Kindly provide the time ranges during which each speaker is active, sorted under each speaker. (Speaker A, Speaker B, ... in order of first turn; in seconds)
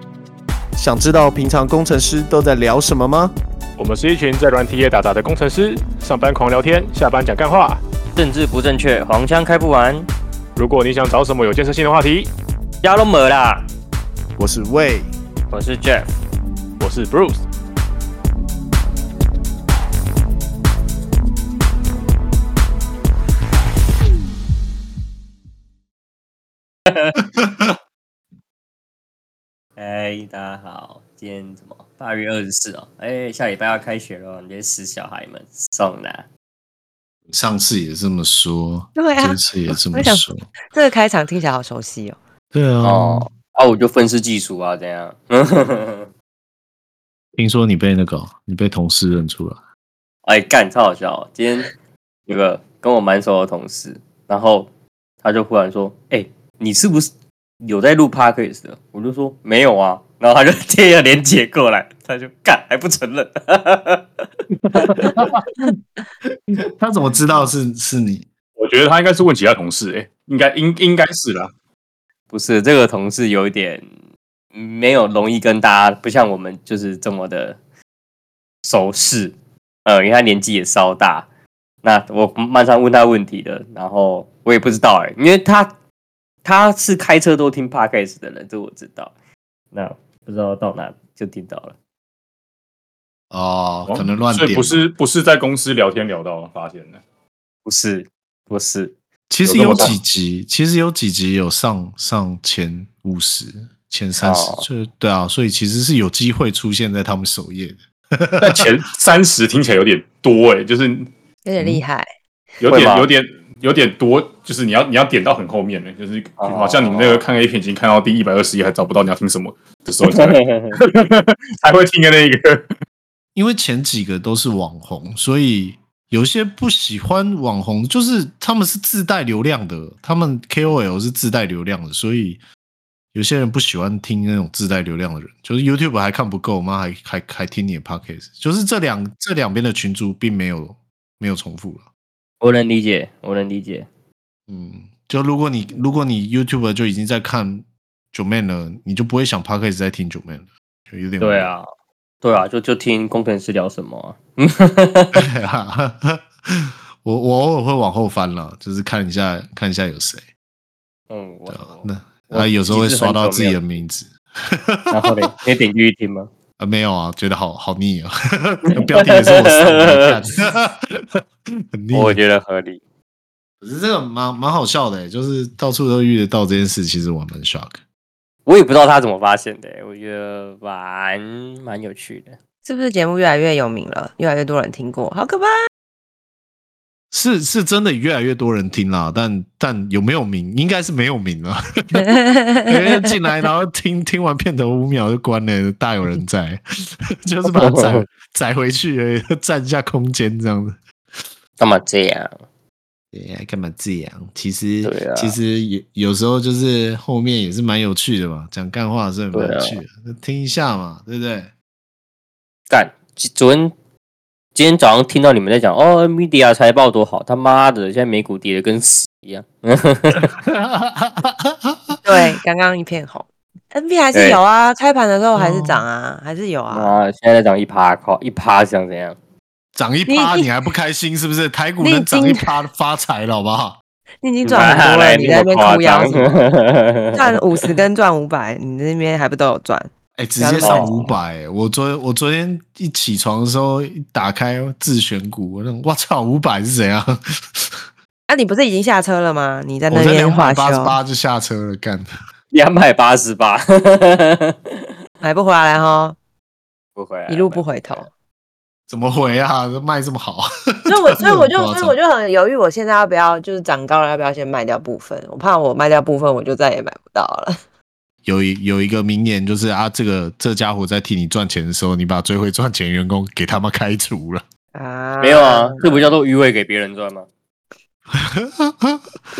Speaker A: 0.8-3.3, 14.4-15.1
Speaker B: 3.8-7.8, 10.6-12.3, 16.8-17.4, 68.6-71.5, 93.9-97.0, 99.4-99.9, 108.4-111.1, 112.6-122.7
Speaker C: 8.1-10.1, 12.8-13.7, 15.5-16.1, 29.8-36.2, 42.8-46.1, 50.2-51.7, 52.3-54.7, 55.2-57.1, 57.6-64.0, 64.8-65.1, 72.3-73.8, 74.5-77.5, 78.6-79.3, 79.8-81.2, 81.8-85.7, 86.4-89.1, 89.7-91.7, 97.6-98.9, 99.6-99.9, 104.2-104.7, 112.6-113.1, 116.4-117.2, 120.0-120.8, 142.4-143.9, 151.2-151.7, 152.2-155.2, 161.1-163.6, 164.9-166.3, 168.7-170.2, 171.9-172.8, 178.4-182.3, 197.5-198.1, 201.6-202.4, 204.8-205.3, 209.3-209.8, 212.7-213.7, 214.5-220.3, 224.1-224.4, 226.7-229.2, 234.4-237.4, 240.6-241.1, 252.5-254.9, 256.9-257.9, 275.2-277.3
Speaker D: 27.2-27.7, 37.3-40.4, 42.5-43.3, 47.3-49.6, 64.6-65.4, 66.6-68.3, 93.3-94.9, 99.3-108.7, 123.3-132.4, 133.1-141.8, 144.5-151.5, 155.1-160.2, 161.5-165.3, 166.6-172.2, 173.6-177.8, 187.1-192.1, 192.6-200.8, 203.1-211.5, 220.3-222.0, 225.3-225.8, 229.7-233.8, 240.2-247.8, 249.9-252.1, 258.9-262.0, 268.2-274.4, 278.1-279.0
Speaker E: 39.0-39.4, 39.9-42.2, 111.4-112.1, 182.6-185.5, 191.9-193.0, 222.0-226.9, 230.1-230.5, 231.8-232.5, 234.2-236.4, 237.1-241.1, 248.3-250.9, 255.2-256.2, 257.3-258.1, 260.9-267.6, 274.7-276.1